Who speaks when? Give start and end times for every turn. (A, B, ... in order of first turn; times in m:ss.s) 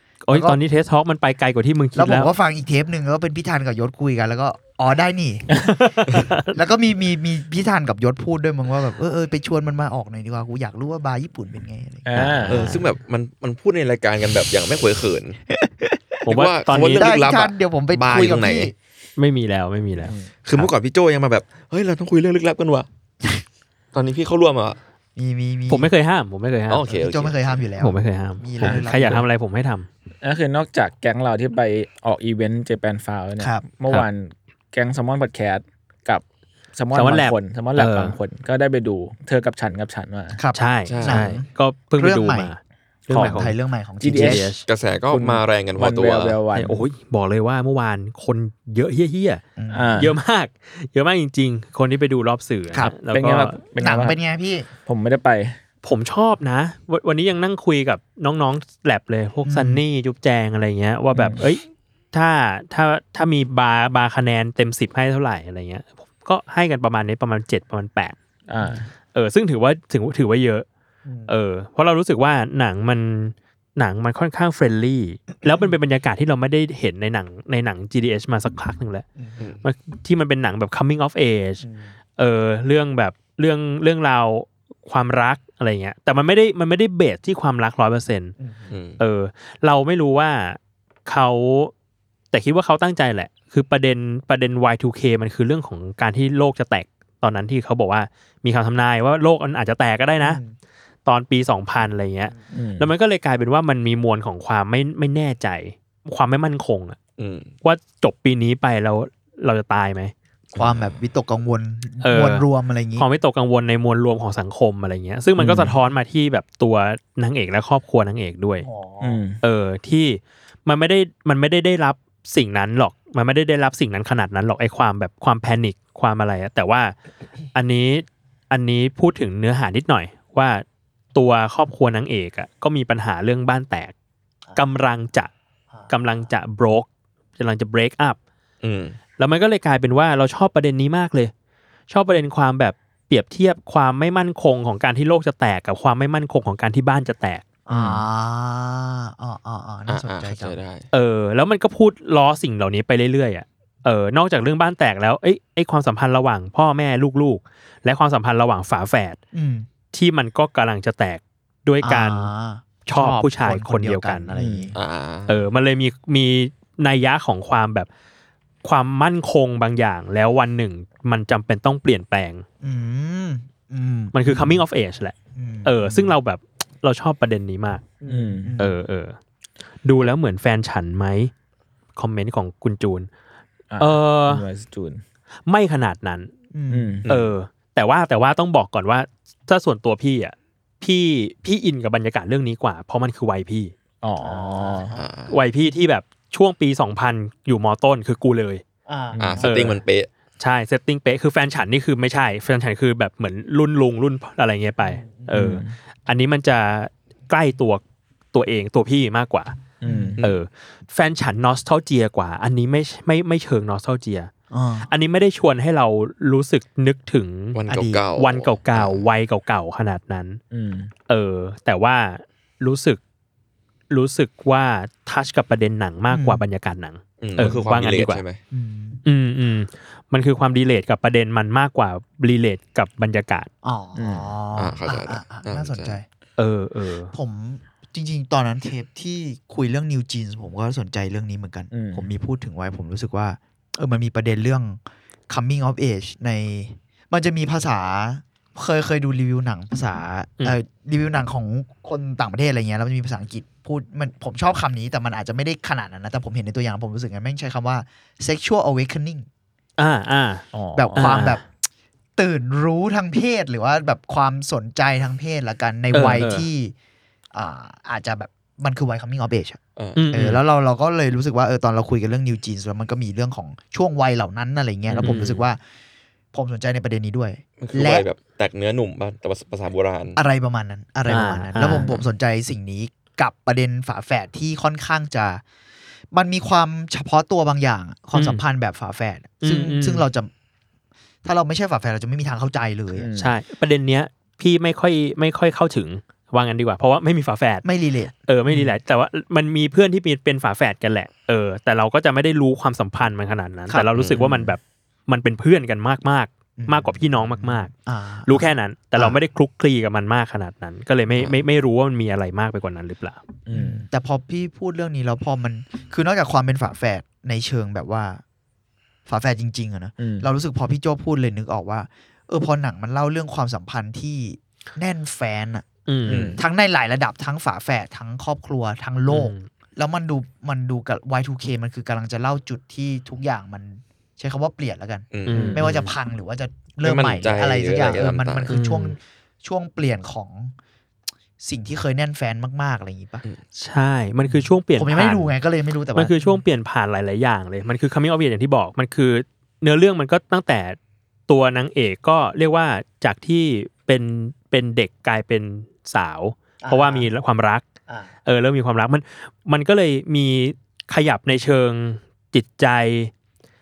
0:00.2-0:02.3 A
0:00.3-0:00.6 B
0:02.0-0:12.6 B
0:05.7-0:06.5 A
0:12.0-0:12.6 C
0:12.2-0:12.9 A
0:12.5-0:15.4 D
0:15.5-0:16.2 B
0:16.3-0:18.7 D
0:16.3-0:17.1 A
0:16.7-0:18.7 B
0:19.2-0:20.7 A
0:20.0-0:20.3 C
0:20.4-0:22.9 D
0:23.9-0:24.8 D
0:25.2-0:25.9 B
0:25.7-0:26.8 A
0:26.7-0:27.6 D
0:26.9-0:29.3 B
0:27.8-0:29.9 A
0:28.6-0:29.2 C
0:30.2-0:36.2 C
0:33.4-0:33.6 B
0:36.8-0:40.4 C
0:36.9-0:38.2 A
0:40.4-0:42.5 B
0:40.5-0:43.6 A
0:40.9-0:41.3 D
0:43.1-0:44.6 C
0:43.1-0:44.5 B
0:44.1-0:44.6 A
0:44.7-0:46.4 D
0:45.1-0:46.8 C
0:46.5-0:49.4 A
0:49.6-0:50.0 B
0:49.7-0:50.1 C
0:50.0-0:53.6 A
0:52.8-0:54.2 C
0:53.8-0:54.7 B
0:54.8-0:55.6 C
0:55.8-1:08.2 A
0:59.4-0:59.8 B
1:01.1-1:01.4 C
1:08.5-1:08.9 C
1:09.1-1:10.7 A
1:11.1-1:11.3 B
1:11.3-1:19.0 A
1:19.2-1:19.4 B
1:19.6-1:21.6 A
1:21.6-1:21.9 B
1:22.2-1:28.4 A
1:28.4-1:28.7 B
1:28.7-1:29.0 D
1:29.0-1:31.7 A
1:32.3-1:40.4 A
1:40.2-1:40.6 B
1:41.0-1:47.0 A
1:42.5-1:42.9 C
1:47.2-1:47.5 D
1:47.6-1:50.1 A
1:50.6-1:51.0 D
1:50.6-1:53.1 B
1:52.0-1:52.4 A
1:53.0-1:58.7 A
1:55.4-1:55.8 C
1:58.6-1:59.2 B
1:59.0-1:59.4 C
1:59.4-2:07.0 A
2:07.5-2:10.6 A
2:11.2-2:13.9 A
2:14.6-2:15.3 A
2:15.9-2:16.9 A
2:17.4-2:18.2 A
2:18.6-2:19.0 D
2:19.2-2:21.3 A
2:21.9-2:27.4 A
2:27.7-2:30.6 B
2:29.9-2:30.9 D
2:30.9-2:39.2 A
2:39.3-2:39.7 B
2:39.9-2:42.3 A
2:41.8-2:44.8 B
2:42.9-2:44.4 A
2:44.3-2:44.7 C
2:44.7-2:45.4 D
2:45.3-2:47.9 A
2:48.6-2:52.4 A
2:52.6-2:54.6 B
2:54.1-2:57.8 A
2:55.4-2:56.2 B
2:58.0-2:58.8 B
2:58.1-2:58.6 C
2:58.6-2:59.2 A
2:59.8-3:01.3 A
3:02.0-3:03.1 A
3:03.7-3:05.0 C
3:03.8-3:04.5 A
3:05.5-3:06.3 A
3:06.5-3:07.0 B
3:06.7-3:07.0 C
3:07.1-3:07.3 D
3:07.1-3:13.7 A
3:14.0-3:15.0 C
3:14.2-3:15.0 B
3:15.0-3:15.4 D
3:15.3-3:18.6 A
3:18.9-3:19.4 B
3:19.1-3:19.8 C
3:19.2-3:20.1 D
3:19.4-3:19.8 A
3:20.4-3:27.8 A
3:24.8-3:25.4 B
3:25.3-3:25.8 C
3:28.3-3:29.6 A
3:29.8-3:30.2 C
3:29.8-3:30.2 B
3:30.2-3:34.3 A
3:34.5-3:34.9 B
3:34.9-3:37.6 A
3:37.5-3:39.0 D
3:37.7-3:38.0 B
3:38.2-3:40.4 A
3:40.5-3:40.9 C
3:41.1-3:43.0 A
3:43.9-3:48.2 A
3:46.1-3:46.4 B
3:47.2-3:48.4 D
3:48.5-3:49.0 B
3:49.0-3:53.5 A
3:53.6-3:56.1 B
3:54.0-3:54.3 C
3:54.6-3:56.0 D
3:56.4-3:57.1 A
3:57.1-4:19.3 B
4:01.7-4:02.1 C
4:19.8-4:21.4 A
4:20.5-4:21.2 C
4:20.7-4:21.5 B
4:22.2-4:26.7 B
4:25.9-4:26.5 A
4:27.3-4:29.6 B
4:29.8-4:30.0 D
4:30.0-4:30.4 A
4:30.1-4:35.6 B
4:34.9-4:35.2 C
4:34.9-4:35.5 A
4:36.3-4:38.1 B
4:37.6-4:40.2 D
4:40.2-4:45.4 B
4:41.1-4:41.9 A
4:46.1-4:50.3 B
4:48.1-4:48.4 A
4:49.4-4:50.1 A
4:51.2-4:53.1 B
4:52.9-4:53.4 C
4:53.2-4:57.6 A
4:57.6-4:58.8 B
4:58.3-5:07.7 A
5:03.7-5:04.5 B
5:04.0-5:04.2 D
5:06.6-5:09.2 B
5:08.3-5:13.2 A
5:13.5-5:13.8 C
5:13.5-5:18.2 B
5:19.1-5:25.6 B
5:20.0-5:20.3 C
5:25.9-5:26.3 A
5:26.1-5:26.4 C
5:26.4-5:40.6 B
5:29.1-5:29.5 A
5:35.1-5:35.6 D
5:35.3-5:35.9 A
5:35.3-5:35.6 C
5:36.8-5:38.5 D
5:38.5-5:39.0 A
5:41.4-5:43.2 B
5:43.6-5:45.3 A
5:44.3-5:46.4 B
5:46.0-5:50.8 A
5:51.3-5:57.7 A
5:56.6-5:57.1 B
5:58.3-6:03.1 A